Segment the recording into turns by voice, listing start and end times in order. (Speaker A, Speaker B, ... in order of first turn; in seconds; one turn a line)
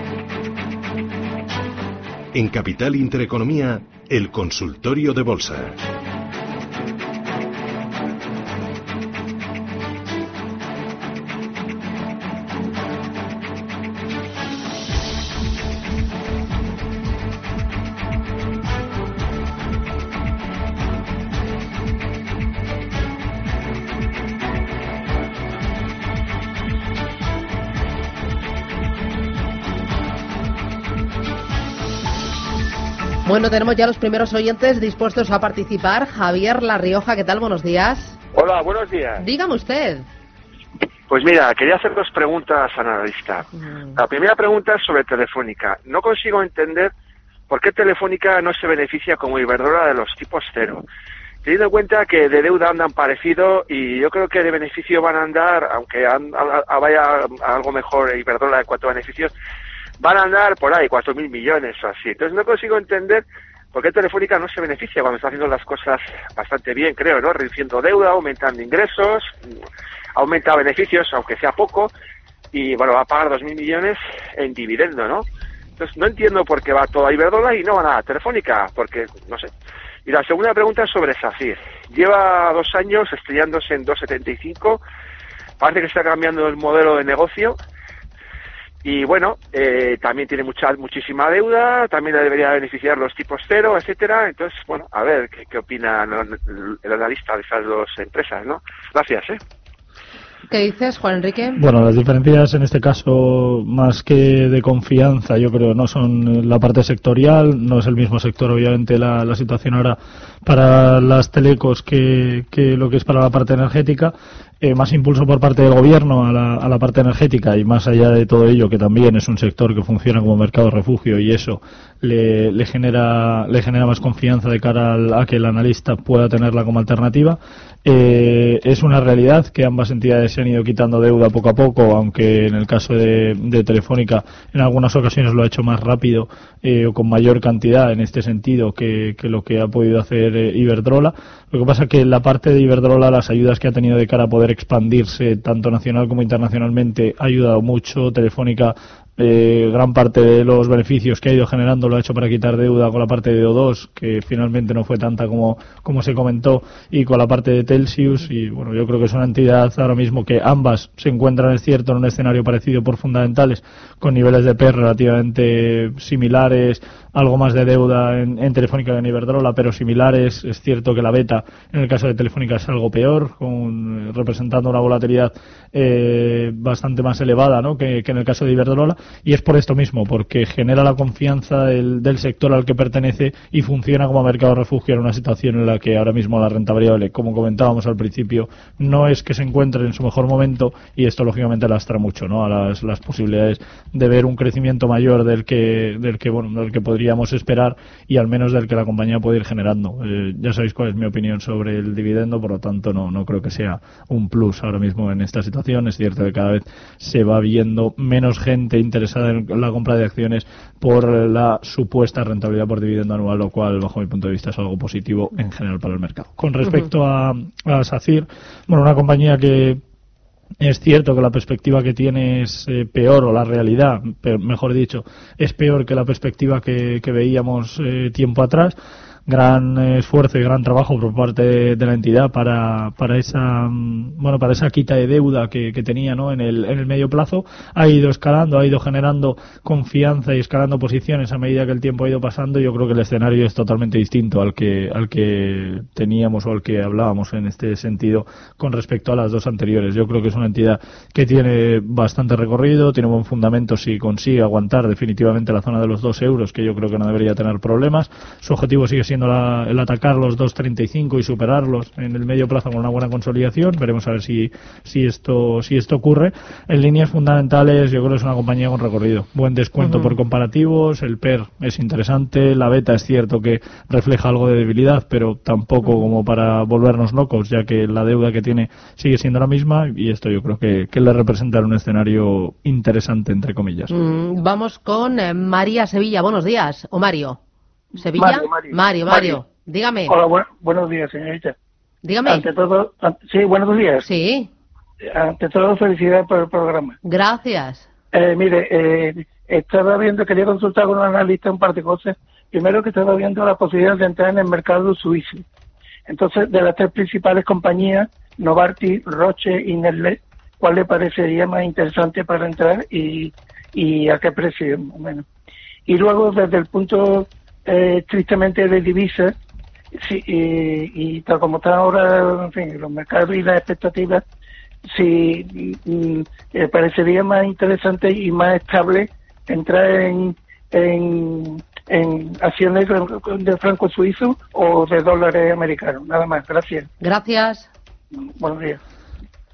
Speaker A: 2.3-5.8
Speaker B: 33.2-38.2
Speaker C: 38.3-39.2
Speaker B: 39.2-40.0
Speaker C: 41.1-46.9
Speaker B: 43.6-43.9
Speaker C: 47.5-50.8
Speaker C: 51.4-59.3
Speaker C: 60.0-69.3
Speaker C: 70.2-71.9
Speaker C: 72.5-75.2
Speaker C: 75.8-79.5
Speaker C: 80.0-84.8
Speaker C: 85.6-87.6
Speaker C: 88.8-99.4
Speaker B: 100.5-101.6
Speaker D: 101.6-219.8
Speaker D: 220.6-228.8
Speaker D: 229.3-283.9
Speaker B: 269.8-270.1
Speaker B: 283.9-287.4
Speaker E: 288.0-289.4
Speaker B: 288.0-290.1
Speaker E: 290.1-291.5
Speaker B: 292.0-292.4
Speaker E: 292.2-294.1
Speaker B: 294.0-294.5
Speaker E: 295.0-297.0
Speaker B: 297.0-297.9
Speaker E: 298.1-305.4
Speaker E: 306.1-315.2
Speaker E: 315.9-319.3
Speaker E: 319.9-324.2
Speaker E: 324.9-336.9
Speaker B: 337.0-337.7
Speaker E: 338.1-338.8